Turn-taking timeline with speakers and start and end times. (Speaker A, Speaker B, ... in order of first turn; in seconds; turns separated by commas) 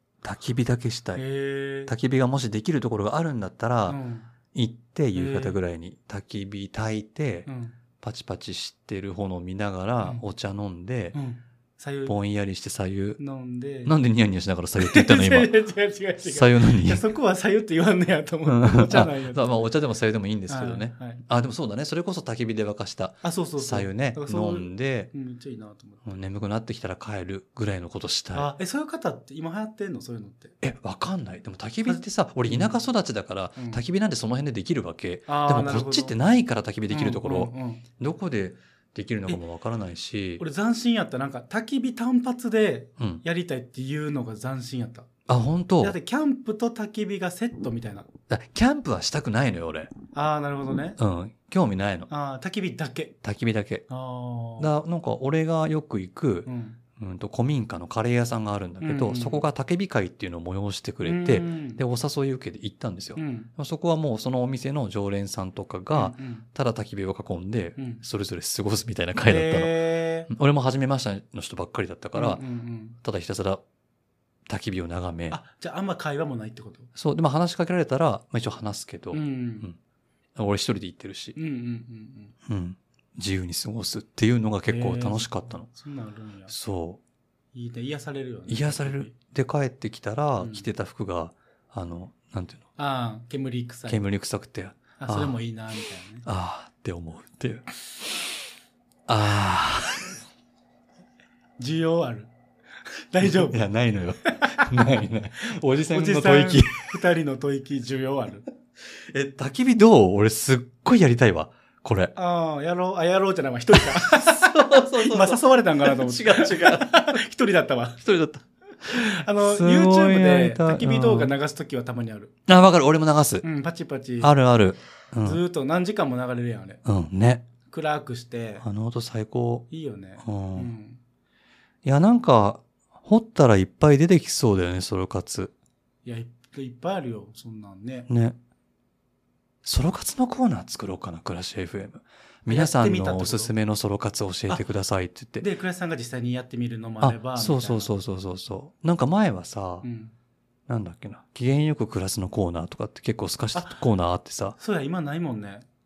Speaker A: 0.2-1.2, Speaker B: 1.2-1.9, Speaker A: 1.9-4.0, Speaker B: 3.9-4.3, Speaker A: 4.5-11.2, Speaker B: 5.1-5.6, Speaker B: 7.5-7.8, Speaker B: 11.1-12.2, Speaker A: 12.1-13.2, Speaker B: 13.2-13.9, Speaker A: 13.8-15.6, Speaker B: 14.8-19.6, Speaker A: 16.2-17.0, Speaker A: 18.5-25.1, Speaker B: 20.5-21.2, Speaker B: 23.2-26.2, Speaker A: 26.0-28.5, Speaker B: 28.3-30.6, Speaker A: 30.6-40.4, Speaker B: 31.9-32.8, Speaker B: 33.6-33.8, Speaker B: 35.3-36.1, Speaker B: 36.9-37.8, Speaker B: 40.4-45.1, Speaker A: 43.0-43.2, Speaker A: 45.3-46.0, Speaker B: 45.8-48.1, Speaker A: 48.3-49.9, Speaker B: 50.1-51.0, Speaker A: 51.0-52.1, Speaker B: 52.1-53.1, Speaker A: 53.2-53.9, Speaker B: 53.9-54.7, Speaker A: 54.6-72.4, Speaker B: 56.5-56.8, Speaker B: 58.8-59.5, Speaker B: 61.0-61.8, Speaker B: 63.2-63.5, Speaker B: 66.0-66.5, Speaker B: 67.8-68.0, Speaker B: 69.2-70.3, Speaker B: 72.2-73.0, Speaker A: 73.0-73.6, Speaker A: 74.5-75.4, Speaker B: 75.3-76.9, Speaker A: 77.0-79.8, Speaker B: 79.1-79.7, Speaker A: 80.4-81.4, Speaker B: 81.4-82.3, Speaker A: 82.5-85.7, Speaker B: 84.7-86.5, Speaker A: 86.5-87.0, Speaker B: 87.5-89.1, Speaker A: 88.5-92.7, Speaker B: 90.4-90.7, Speaker B: 92.8-94.1, Speaker A: 93.9-95.4, Speaker B: 95.0-96.3, Speaker A: 96.2-98.3, Speaker A: 99.1-100.2, Speaker B: 101.6-102.3, Speaker B: 103.1-103.6, Speaker A: 103.2-106.9, Speaker B: 104.4-104.8, Speaker B: 105.8-108.5, Speaker A: 108.9-112.1, Speaker B: 112.2-118.0, Speaker A: 113.8-117.2, Speaker A: 118.0-121.3, Speaker B: 118.9-122.3, Speaker A: 122.5-123.5, Speaker B: 123.4-124.3, Speaker A: 124.2-125.4, Speaker B: 125.2-126.8, Speaker A: 126.8-127.5, Speaker B: 127.7-128.7, Speaker A: 128.6-129.7, Speaker B: 129.7-131.0, Speaker A: 130.2-130.7, Speaker A: 131.8-135.5, Speaker B: 136.1-138.1, Speaker A: 138.1-138.4, Speaker A: 139.6-145.5, Speaker B: 142.5-143.5, Speaker B: 145.4-147.9, Speaker A: 147.0-149.9, Speaker B: 149.8-150.1, Speaker A: 150.7-154.6, Speaker B: 153.6-153.8, Speaker B: 154.6-155.7